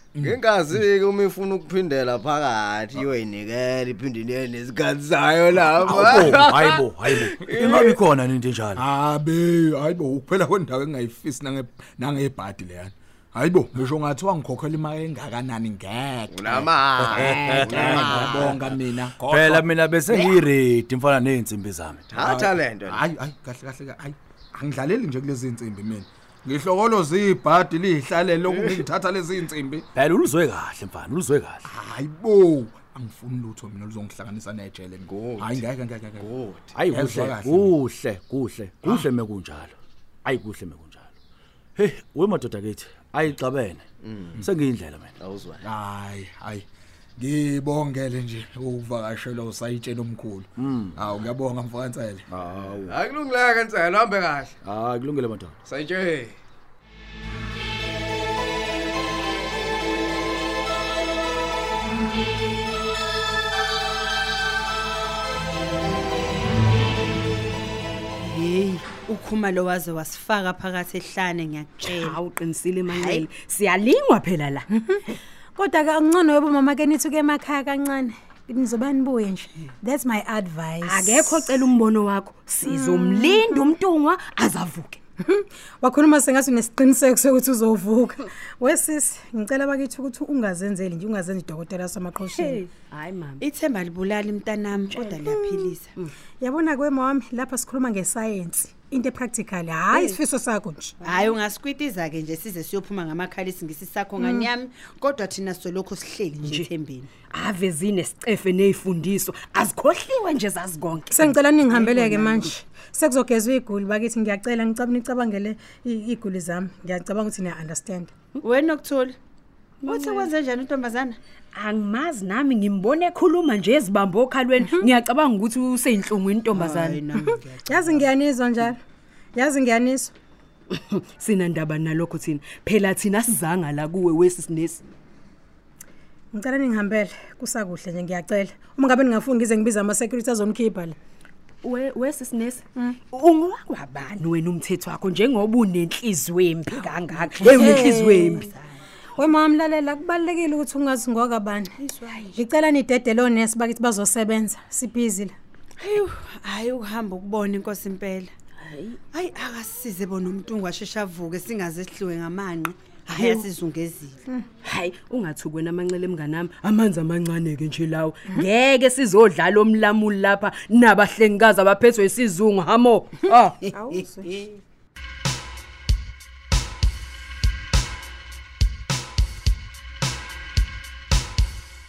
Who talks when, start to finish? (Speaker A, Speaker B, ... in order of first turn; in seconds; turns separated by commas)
Speaker A: 0.2-8.0, Speaker B: 5.8-8.8, Speaker C: 8.8-20.5, Speaker A: 16.3-18.5, Speaker B: 17.1-18.6, Speaker B: 19.2-22.1, Speaker A: 22.1-23.0, Speaker C: 22.2-29.8, Speaker A: 28.5-28.8, Speaker B: 29.9-31.7, Speaker C: 31.7-36.3, Speaker A: 35.1-35.6, Speaker A: 36.2-36.8, Speaker B: 36.8-41.1, Speaker C: 36.9-37.8, Speaker B: 41.8-43.8, Speaker A: 44.0-44.4, Speaker B: 44.4-45.1, Speaker A: 45.2-45.7, Speaker C: 45.6-46.7, Speaker C: 47.2-52.2, Speaker B: 50.6-51.0, Speaker B: 52.3-53.0, Speaker A: 52.8-54.5, Speaker B: 54.6-55.5, Speaker A: 55.6-56.4, Speaker D: 68.3-71.7, Speaker E: 71.8-74.7, Speaker F: 75.5-81.6, Speaker E: 80.8-85.0, Speaker F: 82.6-83.7, Speaker F: 85.2-92.6, Speaker E: 92.3-93.5, Speaker D: 93.6-95.5, Speaker F: 95.0-95.7, Speaker F: 96.4-101.0, Speaker D: 101.1-107.0, Speaker F: 104.2-104.5, Speaker E: 106.4-106.8, Speaker E: 107.3-112.5, Speaker F: 111.1-118.1, Speaker D: 118.7-119.1, Speaker E: 119.8-120.4, Speaker D: 120.0-121.1, Speaker E: 121.5-127.1, Speaker F: 127.5-128.8, Speaker F: 129.3-130.1, Speaker E: 130.7-134.8, Speaker F: 136.3-141.0, Speaker E: 141.6-148.5, Speaker F: 147.5-148.5, Speaker F: 149.2-151.7, Speaker F: 152.3-155.3, Speaker D: 155.8-158.3, Speaker E: 158.6-159.0, Speaker D: 159.2-164.1, Speaker E: 164.6-174.1, Speaker F: 173.8-174.2